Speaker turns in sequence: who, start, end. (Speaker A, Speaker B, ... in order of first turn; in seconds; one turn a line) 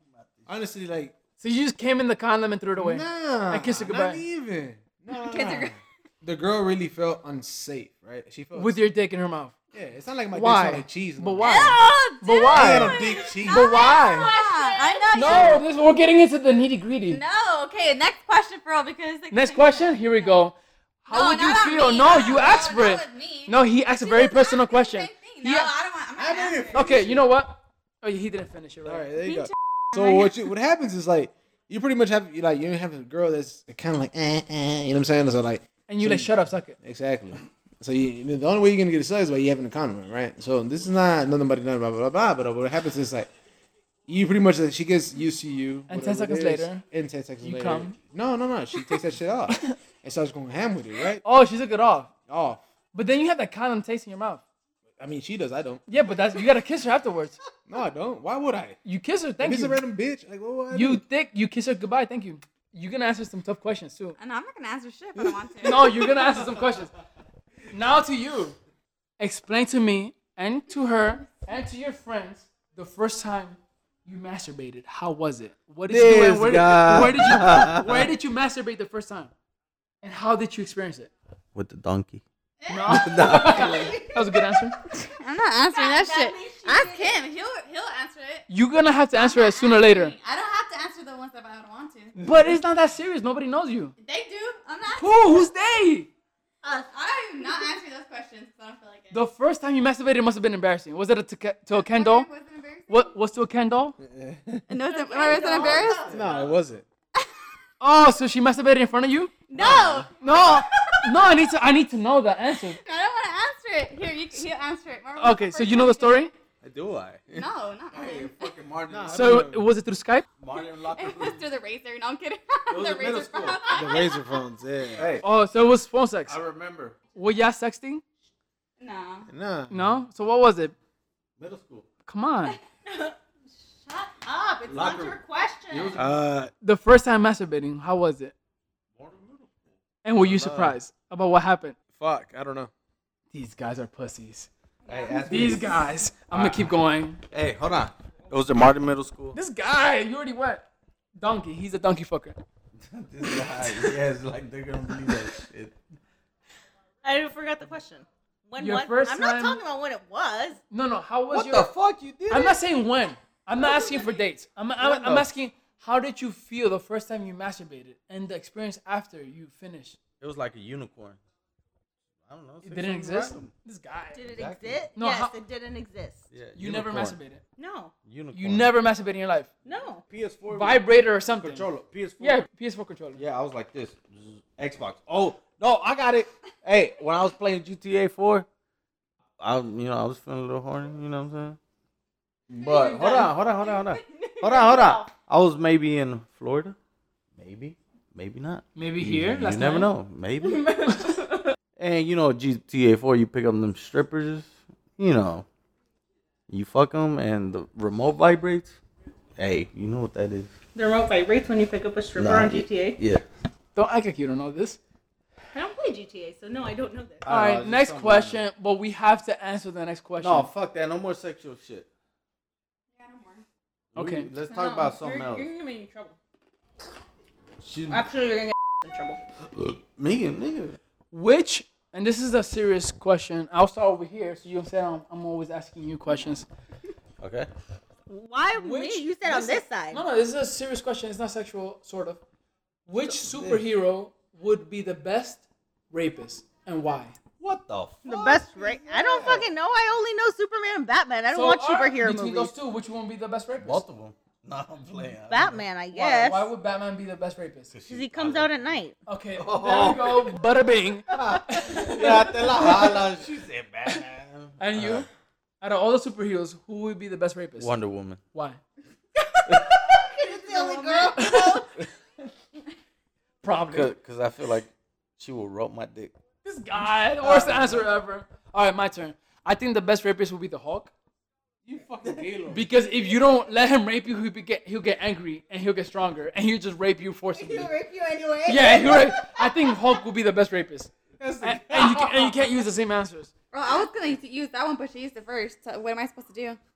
Speaker A: 0.1-0.5
Speaker B: 0.5-1.1
Speaker C: 1.4-4.2
Speaker B: 2.8-8.8
Speaker D: 5.1-5.8
Speaker C: 8.5-9.6
Speaker B: 9.7-11.8
Speaker C: 10.3-14.3
Speaker D: 11.4-15.6
Speaker B: 12.5-14.1
Speaker E: 13.5-15.6
Speaker C: 15.1-17.2
Speaker D: 17.1-20.3
Speaker C: 19.3-25.7
Speaker D: 21.1-27.0
Speaker B: 26.1-27.2
Speaker C: 26.7-29.1
Speaker B: 28.8-43.3
Speaker D: 29.2-30.3
Speaker C: 35.9-36.8
Speaker B: 44.1-51.2
Speaker C: 45.9-46.8
Speaker C: 47.4-48.0
Speaker C: 49.5-49.8
Speaker C: 51.2-52.1
Speaker B: 52.3-52.6
Speaker C: 52.9-54.4
Speaker B: 55.0-55.9
Speaker C: 55.9-57.4
Speaker B: 57.6-58.8
Speaker C: 58.8-59.8
Speaker B: 59.4-61.0
Speaker C: 60.7-64.1
Speaker D: 64.2-66.0
Speaker B: 65.2-66.0
Speaker C: 65.6-66.9
Speaker C: 67.7-68.6
Speaker C: 69.2-79.3
Speaker A: 75.9-78.1
Speaker C: 80.0-81.1
Speaker A: 81.5-82.2
Speaker D: 82.6-83.8
Speaker C: 82.7-84.8
Speaker A: 82.9-83.8
Speaker E: 83.2-84.3
Speaker D: 84.9-88.5
Speaker E: 85.7-87.2
Speaker C: 88.5-90.2
Speaker D: 89.1-92.2
Speaker C: 92.2-93.9
Speaker D: 94.0-95.5
Speaker C: 95.0-96.1
Speaker E: 96.6-96.9
Speaker D: 96.8-99.2
Speaker C: 99.1-102.3
Speaker D: 101.7-103.1
Speaker C: 102.9-104.0
Speaker B: 104.0-104.7
Speaker D: 104.7-106.1
Speaker E: 104.8-106.5
Speaker A: 105.5-106.5
Speaker B: 106.0-106.8
Speaker C: 107.8-109.3
Speaker D: 109.5-111.3
Speaker B: 109.5-110.1
Speaker C: 110.2-112.8
Speaker D: 112.7-116.3
Speaker C: 115.2-116.3
Speaker A: 116.6-119.5
Speaker D: 117.3-118.4
Speaker B: 118.9-119.7
Speaker C: 119.1-120.3
Speaker A: 120.4-121.4
Speaker D: 120.5-124.2
Speaker A: 122.7-123.7
Speaker B: 123.7-125.2
Speaker A: 125.0-125.2
Speaker C: 125.2-126.4
Speaker A: 126.3-127.0
Speaker C: 127.1-128.0
Speaker D: 128.8-129.3
Speaker B: 129.3-129.9
Speaker C: 129.7-130.7
Speaker A: 131.4-131.8
Speaker C: 132.1-132.6
Speaker E: 132.8-133.2
Speaker E: 133.7-136.0
Speaker A: 134.7-135.2
Speaker A: 135.7-136.2
Speaker B: 136.0-136.5
Speaker C: 136.6-138.3
Speaker A: 138.9-140.8
Speaker C: 140.0-141.8
Speaker B: 142.0-142.7
Speaker C: 143.3-144.5
Speaker E: 144.9-145.3
Speaker A: 144.9-146.7
Speaker C: 145.2-147.2
Speaker A: 147.3-149.4
Speaker C: 149.3-150.6
Speaker C: 151.2-152.4
Speaker A: 152.8-155.7
Speaker C: 153.2-153.9
Speaker E: 157.0-160.6
Speaker C: 158.6-159.6
Speaker C: 160.7-161.7
Speaker A: 161.3-162.6
Speaker C: 162.3-170.0
Speaker E: 163.6-163.9
Speaker A: 164.8-165.3
Speaker A: 170.2-171.2
Speaker A: 172.2-173.5
Speaker C: 172.6-174.3
Speaker E: 174.1-176.2
Speaker A: 174.3-174.9
Speaker C: 174.9-175.3
Speaker A: 176.3-177.2
Speaker C: 176.5-177.4
Speaker E: 177.6-177.9
Speaker A: 178.0-178.7
Speaker C: 178.3-179.5
Speaker E: 179.6-180.0
Speaker A: 180.0-182.4
Speaker C: 180.5-181.7
Speaker C: 182.2-183.2
Speaker A: 183.2-188.5
Speaker A: 189.4-191.6
Speaker A: 192.5-196.8
Speaker E: 192.5-195.1
Speaker A: 197.4-200.7
Speaker C: 198.8-199.9
Speaker E: 200.4-201.6
Speaker A: 201.8-205.4
Speaker A: 206.5-208.8
Speaker A: 209.4-210.5
Speaker E: 210.7-213.0
Speaker A: 212.2-213.2
Speaker C: 213.7-214.8
Speaker E: 215.5-217.3
Speaker A: 217.2-218.4
Speaker C: 217.3-220.5
Speaker A: 220.2-221.9
Speaker D: 222.9-223.4
Speaker A: 223.9-225.5
Speaker C: 223.9-224.3
Speaker E: 224.4-226.2
Speaker A: 227.6-228.0
Speaker E: 227.9-229.2
Speaker A: 229.5-230.8
Speaker C: 231.1-236.5
Speaker A: 237.2-237.5
Speaker E: 238.1-240.0
Speaker C: 238.5-242.2
Speaker C: 242.9-247.2
Speaker A: 243.0-243.6
Speaker A: 247.4-249.5
Speaker E: 248.0-252.5
Speaker C: 251.3-253.8
Speaker A: 253.6-255.6
Speaker E: 255.3-256.5
Speaker C: 255.9-257.7
Speaker A: 257.7-258.7
Speaker E: 257.9-259.0
Speaker C: 259.1-263.0
Speaker A: 259.3-260.4
Speaker A: 261.1-265.1
Speaker C: 264.6-265.1
Speaker C: 265.6-267.7
Speaker A: 267.6-268.2
Speaker C: 268.3-268.6
Speaker A: 269.5-269.8
Speaker E: 269.5-271.7
Speaker B: 270.2-271.4
Speaker C: 271.1-271.6
Speaker C: 273.4-273.9
Speaker A: 273.6-276.1
Speaker C: 276.4-280.9
Speaker B: 277.2-277.9
Speaker B: 281.6-282.7
Speaker C: 282.5-287.7
Speaker E: 287.3-290.0
Speaker C: 288.4-293.3
Speaker B: 291.2-292.4
Speaker D: 293.5-296.6